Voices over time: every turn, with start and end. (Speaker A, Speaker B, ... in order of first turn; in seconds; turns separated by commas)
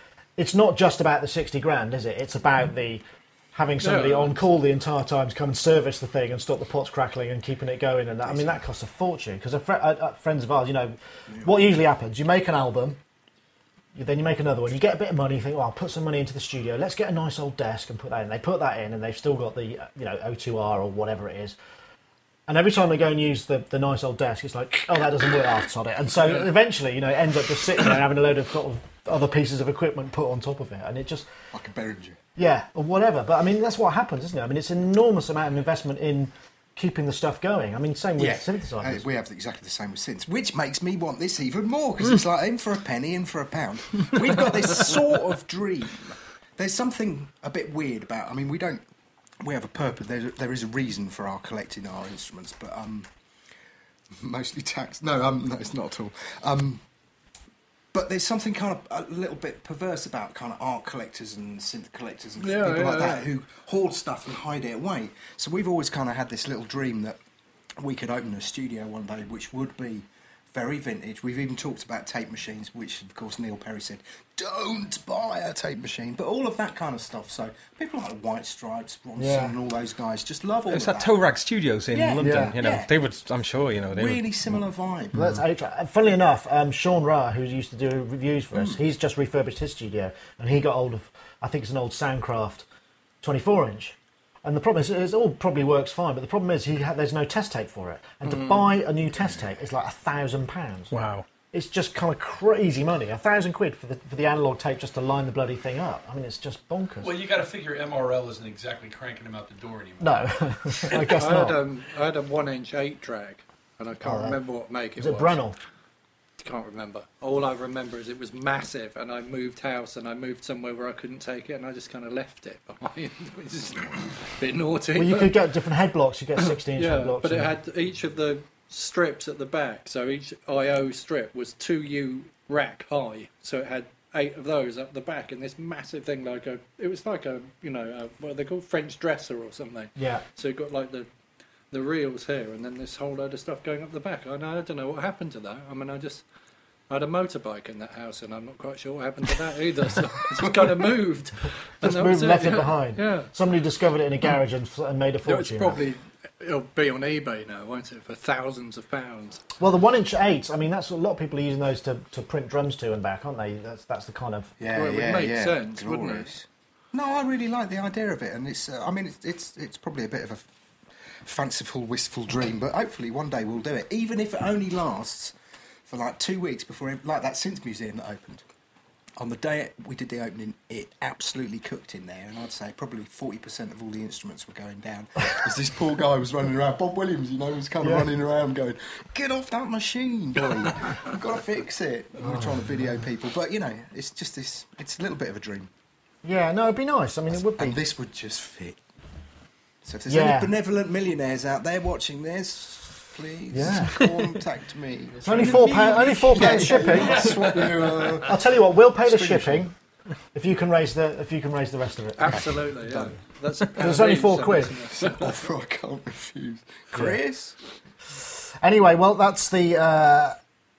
Speaker A: 0.4-13.0, Speaker B: 3.8-4.4, Speaker C: 8.2-8.6, Speaker A: 13.9-21.6, Speaker A: 22.5-31.3, Speaker C: 31.5-32.2, Speaker A: 32.4-39.1, Speaker C: 38.2-48.9, Speaker C: 49.4-53.1, Speaker C: 54.1-56.8, Speaker C: 57.9-67.2, Speaker B: 62.4-63.3, Speaker C: 67.8-81.1, Speaker A: 79.2-79.5, Speaker D: 80.7-84.6, Speaker C: 81.9-82.9, Speaker A: 82.2-82.5, Speaker C: 83.9-85.3, Speaker A: 85.1-92.7, Speaker A: 93.2-101.0, Speaker B: 98.3-98.7, Speaker D: 100.9-101.3, Speaker A: 101.5-107.1, Speaker E: 107.0-110.2, Speaker A: 110.0-111.6, Speaker E: 110.9-111.1, Speaker B: 111.2-115.4, Speaker A: 114.0-114.4, Speaker A: 115.0-115.6, Speaker B: 116.4-125.4, Speaker A: 125.0-127.5, Speaker B: 126.5-141.1, Speaker A: 140.0-140.2, Speaker B: 141.7-146.2, Speaker B: 146.9-153.3, Speaker A: 151.8-155.8, Speaker B: 155.2-159.4, Speaker A: 159.6-164.6, Speaker C: 164.6-170.5, Speaker B: 164.7-166.3, Speaker C: 171.0-175.3, Speaker C: 175.9-178.4, Speaker C: 179.2-195.7, Speaker A: 187.8-188.1, Speaker A: 192.2-193.1, Speaker A: 196.2-197.8, Speaker C: 197.3-198.8, Speaker C: 199.8-209.7, Speaker A: 200.1-200.5, Speaker A: 203.5-204.0, Speaker A: 205.2-207.6, Speaker E: 205.2-207.8, Speaker A: 208.2-209.8, Speaker A: 210.3-213.0, Speaker B: 212.2-215.4, Speaker A: 213.8-214.8, Speaker C: 214.9-217.6, Speaker A: 216.9-217.2, Speaker A: 218.2-220.4